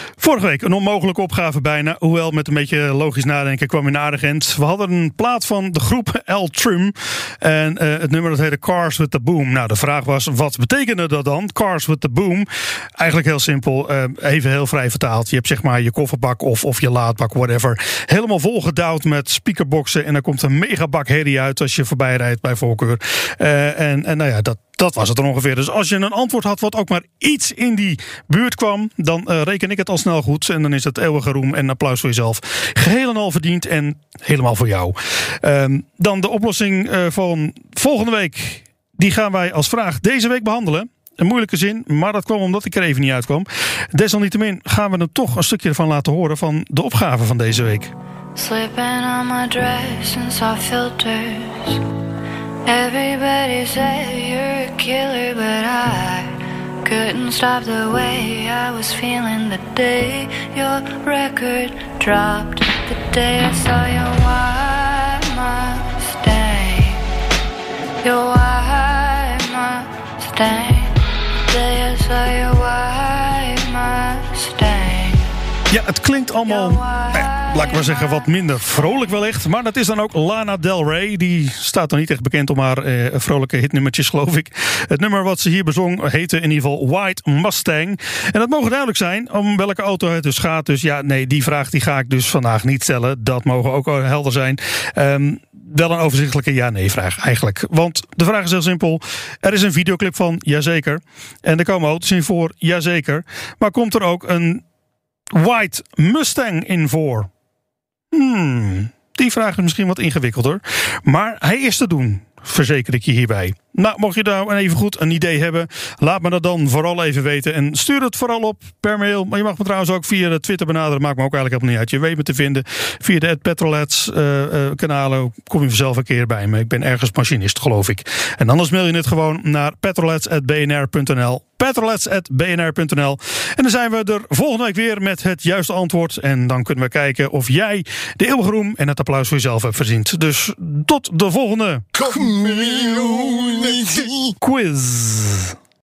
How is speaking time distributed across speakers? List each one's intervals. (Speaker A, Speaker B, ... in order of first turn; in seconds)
Speaker A: 0.2-47.9, 75.7-104.6, 105.3-107.3, 108.1-142.0, 143.3-143.8, 144.3-145.6
Speaker B: 48.3-51.8, 52.6-67.0, 68.0-75.3, 76.5-78.3
Speaker C: 141.9-144.3